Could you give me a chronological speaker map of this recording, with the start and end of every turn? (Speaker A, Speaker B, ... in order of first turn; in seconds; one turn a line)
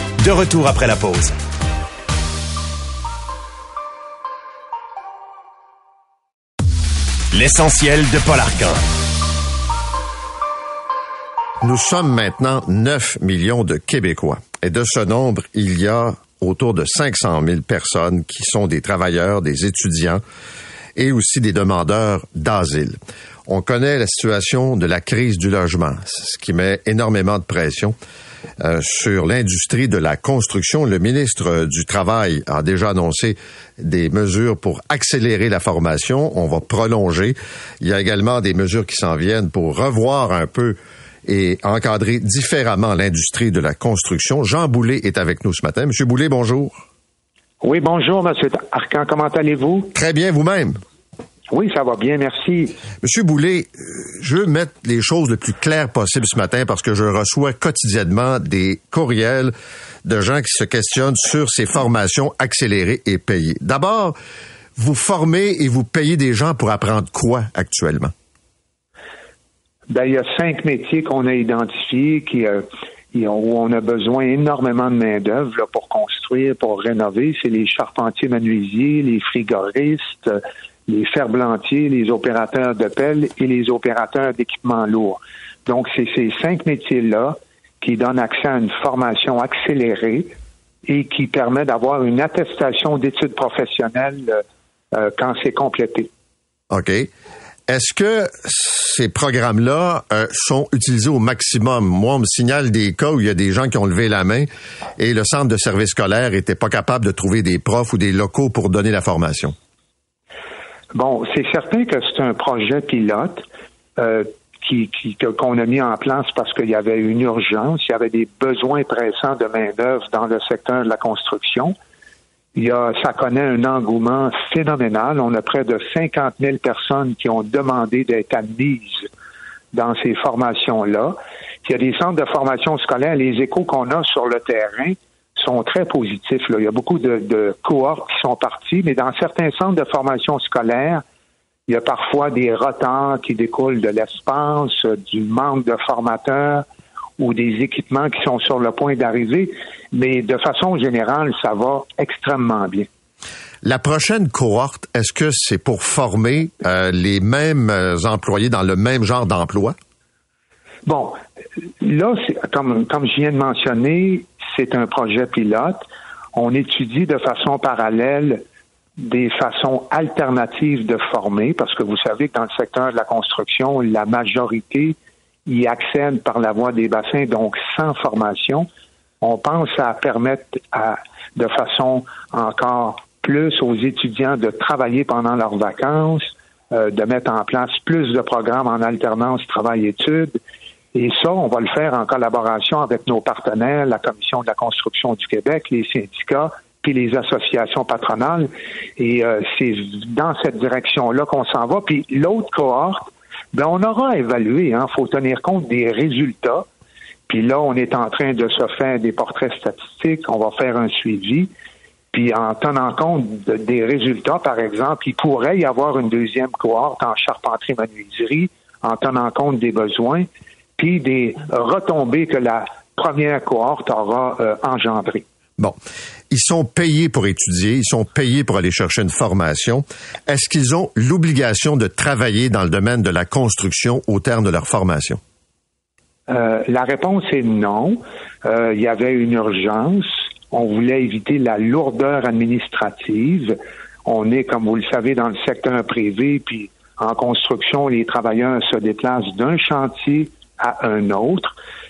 Speaker A: 0.2-1.4
Speaker A: 7.3-8.8
Speaker B: 11.6-20.2
Speaker B: 20.9-27.9
Speaker B: 28.6-46.8
Speaker C: 47.6-49.9
Speaker B: 49.9-50.8
Speaker C: 51.5-52.8
Speaker B: 53.0-64.2
Speaker B: 64.8-68.1
Speaker C: 69.9-90.3
Speaker C: 90.9-94.4
Speaker C: 94.9-96.1
Speaker B: 96.7-97.1
Speaker B: 97.7-109.5
Speaker C: 110.9-113.4
Speaker C: 114.0-121.7
Speaker C: 122.5-129.1
Speaker C: 129.7-141.0
Speaker C: 141.7-146.6
Speaker C: 147.2-152.9
Speaker B: 153.6-159.8
Speaker C: 160.9-161.2
Speaker C: 161.8-165.8
Speaker C: 166.3-168.4
Speaker C: 169.0-178.7
Speaker C: 179.2-190.4
Speaker C: 190.9-206.6
Speaker C: 207.3-211.5
Speaker C: 212.1-220.3
Speaker C: 220.8-225.2
Speaker B: 226.3-235.2
Speaker C: 236.3-251.6